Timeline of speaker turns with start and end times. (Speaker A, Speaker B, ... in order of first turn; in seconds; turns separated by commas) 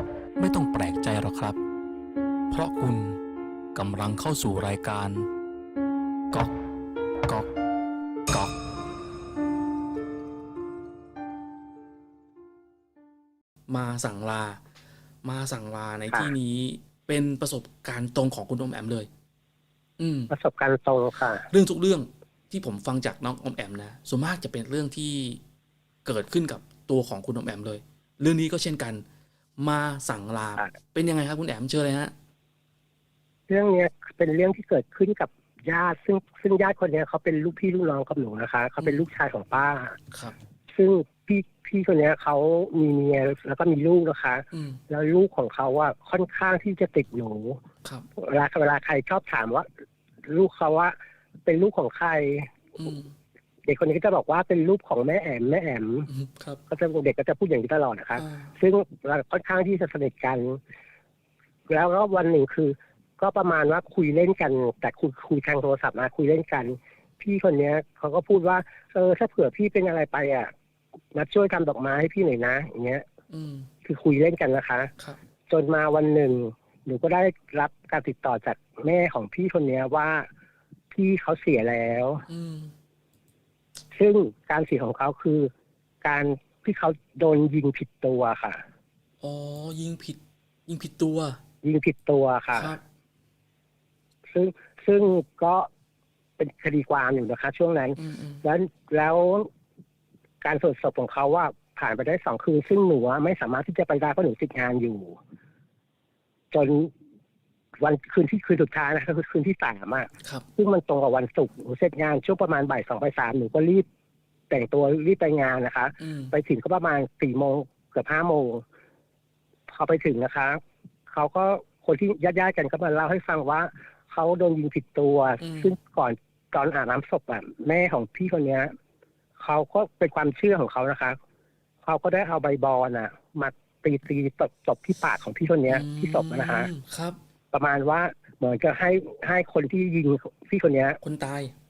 Speaker A: 0.4-1.6, Speaker A: 2.5-3.2, Speaker A: 3.7-5.3, Speaker A: 13.7-14.6, Speaker A: 15.2-19.1, Speaker A: 20.0-20.3, Speaker B: 20.3-21.5, Speaker A: 21.5-25.4, Speaker A: 26.0-29.0, Speaker A: 29.6-32.1, Speaker B: 33.5-40.0, Speaker B: 40.7-47.6, Speaker A: 44.5-44.8, Speaker B: 48.2-49.7, Speaker B: 50.3-50.9, Speaker B: 51.5-52.5, Speaker A: 52.8-53.1, Speaker B: 53.6-56.1, Speaker A: 56.1-56.6, Speaker B: 56.7-60.6, Speaker A: 58.1-58.5, Speaker B: 61.7-70.5, Speaker B: 71.1-73.0, Speaker A: 73.3-73.7, Speaker B: 73.8-74.9, Speaker B: 75.5-80.3, Speaker B: 80.9-82.2, Speaker A: 82.3-82.7, Speaker B: 83.9-85.5, Speaker B: 86.0-88.6, Speaker A: 89.2-91.4, Speaker B: 91.6-92.7, Speaker A: 92.5-92.8, Speaker B: 94.3-95.7, Speaker B: 96.4-99.5, Speaker A: 98.0-98.4, Speaker B: 100.4-105.2, Speaker B: 106.5-106.9, Speaker B: 107.8-113.8, Speaker B: 114.5-118.6, Speaker A: 116.0-116.3, Speaker B: 119.7-128.7, Speaker A: 125.4-125.7, Speaker B: 129.4-131.2, Speaker B: 131.8-136.7, Speaker A: 135.7-137.2, Speaker B: 137.5-141.0, Speaker A: 141.0-141.5